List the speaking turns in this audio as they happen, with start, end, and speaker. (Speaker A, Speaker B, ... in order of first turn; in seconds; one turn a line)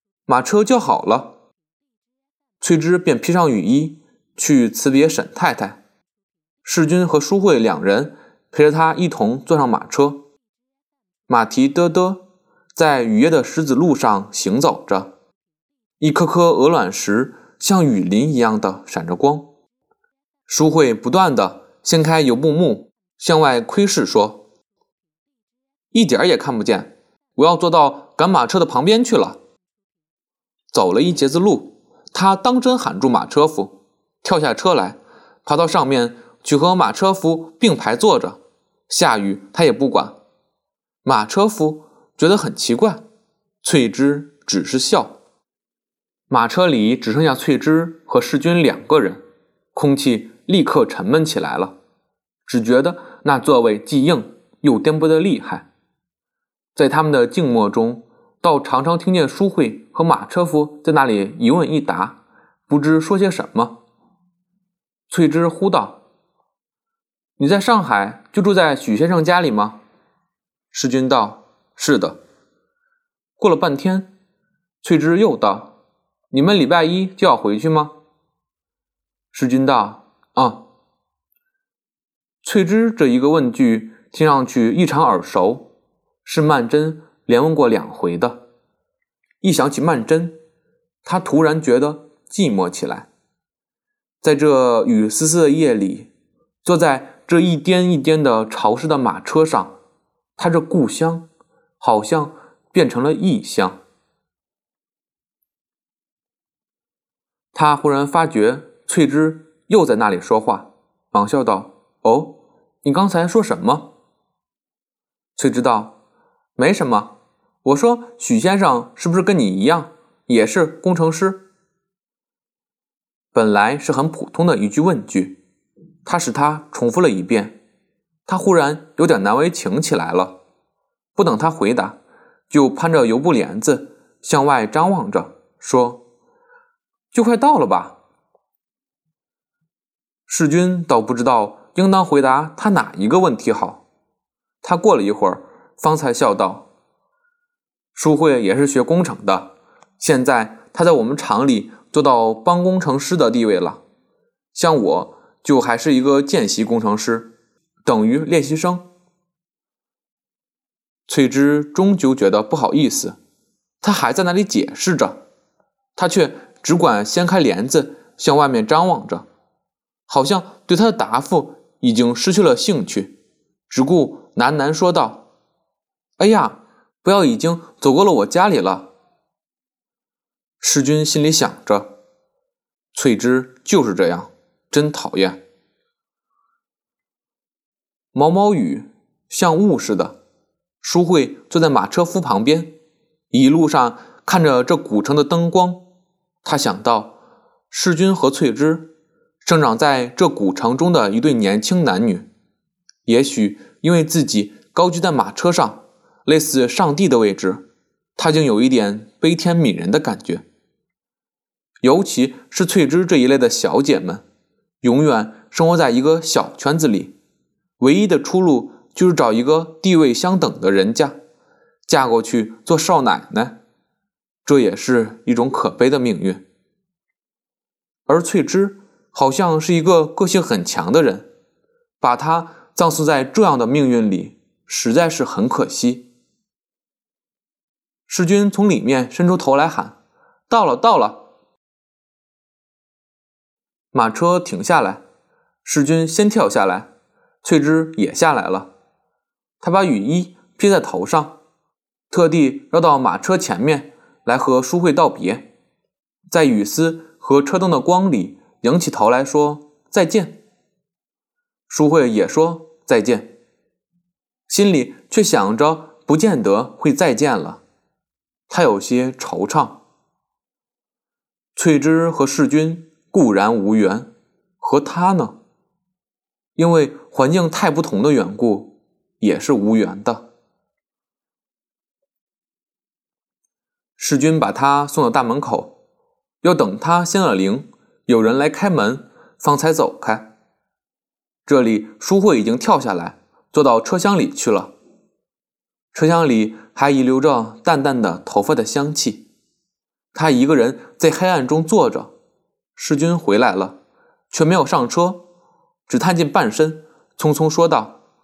Speaker A: 0.3-1.4
Speaker A: 2.6-5.8
Speaker A: 6.7-10.2
Speaker A: 11.3-12.2
Speaker A: 12.7-15.1
Speaker A: 16.0-19.5
Speaker A: 20.5-24.4
Speaker A: 25.9-29.4
Speaker A: 30.7-40.2
Speaker A: 41.0-43.0
Speaker A: 43.6-45.1
Speaker A: 46.3-49.2
Speaker A: 49.7-51.7
Speaker A: 52.5-55.7
Speaker A: 56.7-63.8
Speaker A: 65.1-66.0
Speaker A: 67.4-69.8
Speaker A: 70.7-72.2
Speaker A: 73.4-74.1
Speaker A: 74.8-75.7
Speaker A: 76.3-77.9
Speaker A: 79.3-80.6
Speaker A: 82.4-85.7
Speaker A: 86.2-88.4
Speaker A: 89.4-90.3
Speaker A: 91.0-93.1
Speaker A: 94.2-96.1
Speaker A: 96.6-99.8
Speaker A: 100.4-101.2
Speaker A: 101.8-103.8
Speaker A: 107.5-113.9
Speaker A: 115.4-115.9
Speaker A: 116.5-117.1
Speaker A: 117.6-121.4
Speaker A: 123.3-125.4
Speaker A: 126.0-127.6
Speaker A: 128.3-130.3
Speaker A: 131.2-132.0
Speaker A: 132.5-136.0
Speaker A: 137.1-138.0
Speaker A: 140.3-143.8
Speaker A: 144.6-146.7
Speaker A: 147.9-153.8
Speaker A: 154.5-157.3
Speaker A: 157.8-158.8
Speaker A: 161.1-163.2
Speaker A: 163.8-165.2
Speaker A: 166.0-169.3
Speaker A: 170.1-173.1
Speaker A: 173.7-175.2
Speaker A: 176.2-178.9
Speaker A: 180.6-181.9
Speaker A: 182.9-185.4
Speaker A: 188.1-190.2
Speaker A: 190.8-192.7
Speaker A: 193.3-195.8
Speaker A: 196.4-197.1
Speaker A: 197.7-198.8
Speaker A: 199.4-202.3
Speaker A: 203.1-207.6
Speaker A: 208.2-210.4
Speaker A: 211.8-214.2
Speaker A: 214.8-217.1
Speaker A: 217.8-221.2
Speaker A: 221.9-223.6
Speaker A: 224.4-226.4
Speaker A: 228.1-231.3
Speaker A: 232.0-236.1
Speaker A: 238.1-240.0
Speaker A: 240.5-241.2
Speaker A: 243.9-245.0
Speaker A: 245.6-246.9
Speaker A: 247.4-248.7
Speaker A: 249.6-251.3
Speaker A: 252.1-255.5
Speaker A: 256.3-260.4
Speaker A: 261.7-263.3
Speaker A: 264.5-267.6
Speaker A: 268.5-269.8
Speaker A: 271.6-274.1
Speaker A: 274.6-275.4
Speaker A: 276.6-280.3
Speaker A: 284.0-285.7
Speaker A: 286.4-290.3
Speaker A: 291.5-294.7
Speaker A: 295.9-299.2
Speaker A: 300.1-302.1
Speaker A: 302.8-303.8
Speaker A: 304.3-305.2
Speaker A: 305.9-308.0